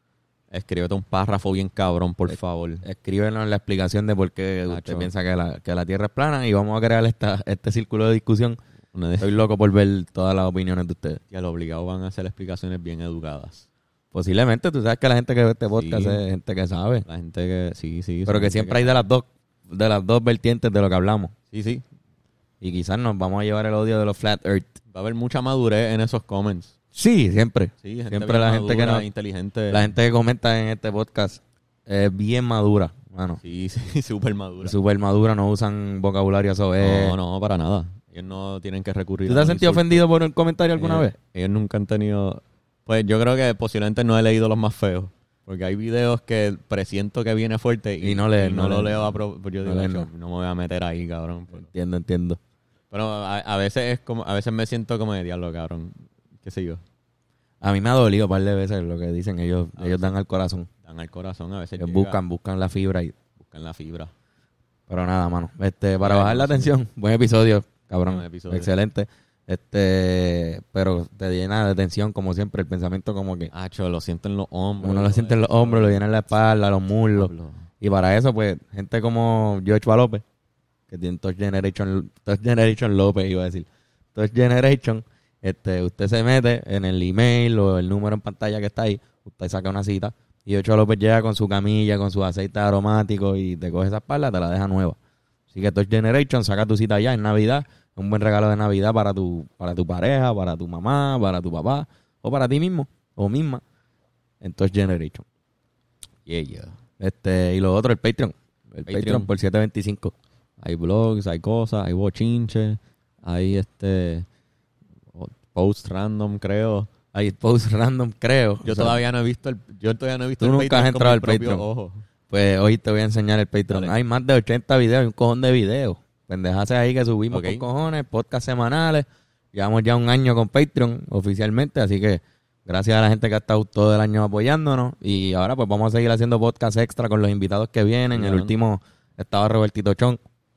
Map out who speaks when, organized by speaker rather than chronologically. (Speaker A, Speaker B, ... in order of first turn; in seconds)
Speaker A: 0.5-2.8, 4.7-5.1, 8.9-9.3, 11.3-13.7, 15.8-16.2, 17.1-18.9, 21.5-21.8, 24.9-26.7, 27.8-29.9, 33.4-34.8, 36.8-40.0, 40.8-51.7, 52.9-56.8, 59.8-60.1, 60.7-62.2, 63.4-64.1, 66.0-66.7, 68.1-68.7, 73.5-76.0, 77.2-77.7, 106.3-106.8, 108.9-109.3, 110.6-114.3, 115.1-116.9, 118.6-122.0, 127.3-127.7, 138.1-138.5
Speaker B: 2.3-8.6, 9.2-11.2, 14.1-17.1, 18.3-21.3, 22.6-24.8, 26.9-29.1, 29.7-33.4, 34.6-37.1, 39.3-41.1, 48.0-50.1, 51.6-52.4, 57.6-60.7, 61.8-63.1, 64.9-73.5, 74.8-80.2, 80.9-95.0, 95.5-103.6, 104.4-105.2, 107.0-110.1, 117.1-119.0, 120.4-121.6, 122.3-140.2